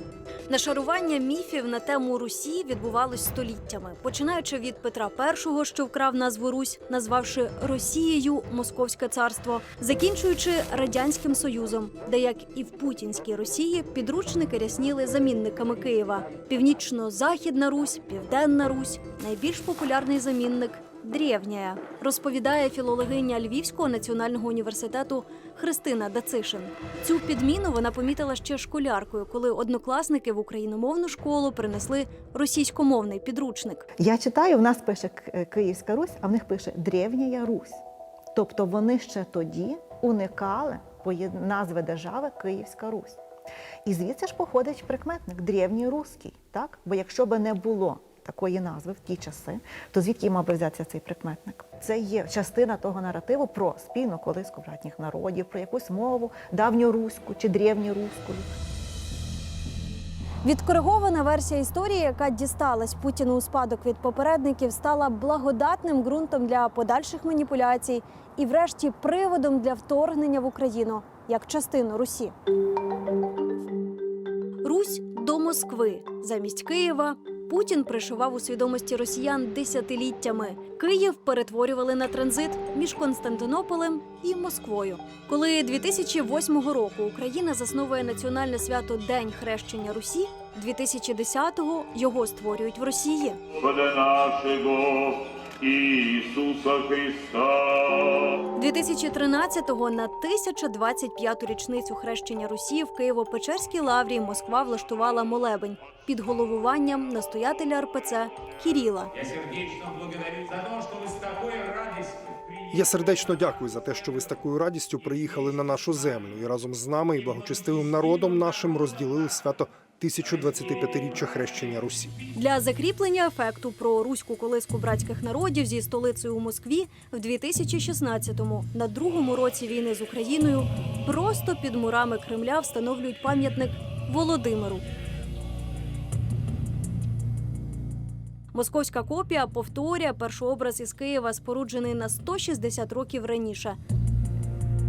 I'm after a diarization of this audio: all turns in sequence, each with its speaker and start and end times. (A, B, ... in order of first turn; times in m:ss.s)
0:00.5-0:33.9 A
0:34.0-0:37.8 B
0:38.3-0:43.2 B
0:43.8-0:58.5 B
1:00.4-1:12.3 A
1:14.6-1:33.4 A
1:33.6-1:38.4 C
1:38.6-1:49.1 A
1:49.2-1:52.3 D
1:52.7-2:02.2 E
2:02.4-2:14.8 A
2:18.5-2:23.8 A